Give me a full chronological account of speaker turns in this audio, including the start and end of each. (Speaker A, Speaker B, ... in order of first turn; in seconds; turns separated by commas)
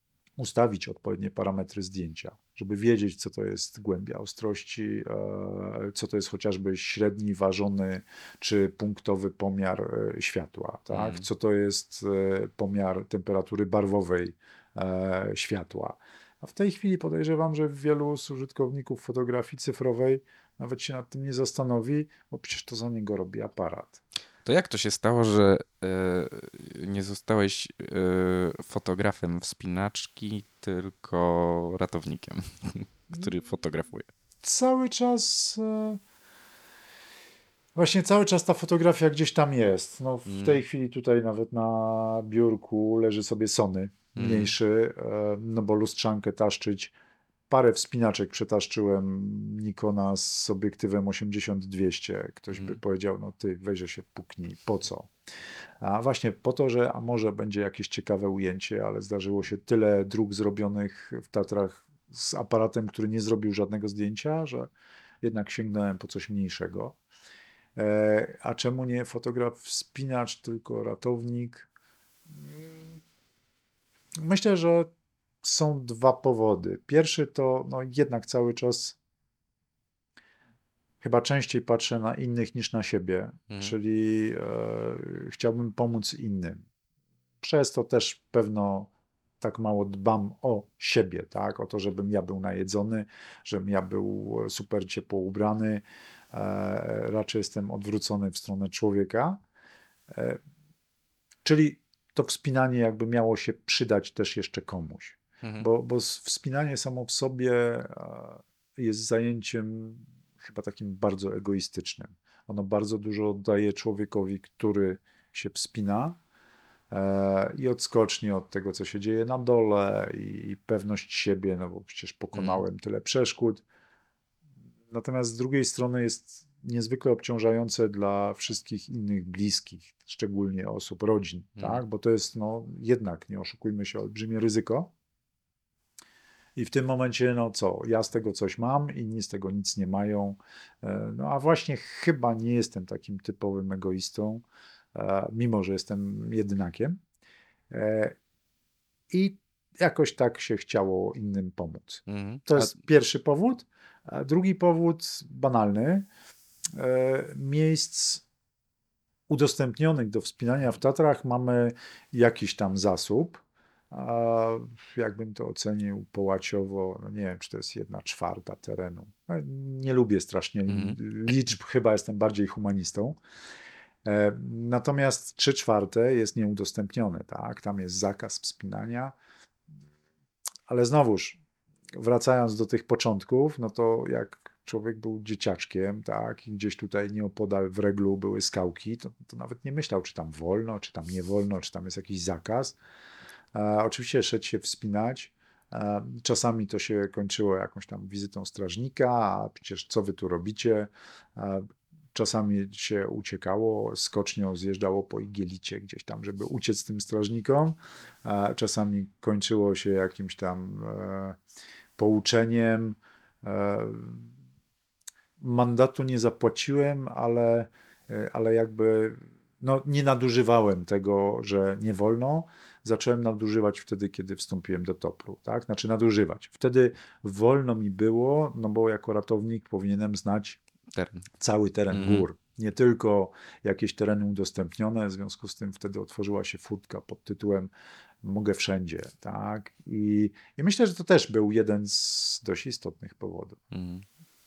Speaker A: 0.4-24.0, Speaker B: 10.9-11.2, Speaker B: 24.4-34.1, Speaker A: 34.4-36.0, Speaker A: 37.7-46.9, Speaker B: 40.2-40.6, Speaker B: 44.1-44.5, Speaker A: 47.5-55.1, Speaker B: 52.5-52.8, Speaker A: 55.8-64.7, Speaker A: 65.2-67.0, Speaker A: 67.8-71.7, Speaker A: 72.3-73.0, Speaker A: 74.2-74.9, Speaker A: 75.4-79.0, Speaker A: 81.0-86.6, Speaker B: 83.5-83.7, Speaker A: 87.4-99.4, Speaker A: 100.1-100.4, Speaker A: 101.4-116.2, Speaker B: 105.4-105.7, Speaker A: 116.9-123.6, Speaker B: 122.3-122.6, Speaker A: 124.9-134.9, Speaker A: 136.6-147.0, Speaker A: 147.7-148.2, Speaker A: 149.1-156.1, Speaker B: 152.1-152.7, Speaker A: 156.7-158.2, Speaker A: 159.3-173.2, Speaker B: 170.7-171.0, Speaker A: 174.0-179.1, Speaker A: 180.7-181.4, Speaker A: 181.9-192.8, Speaker A: 193.5-211.4, Speaker A: 212.0-214.3, Speaker A: 215.4-230.6, Speaker B: 230.9-231.2, Speaker A: 231.4-237.7, Speaker B: 231.9-232.2, Speaker A: 238.2-243.6, Speaker B: 243.7-244.1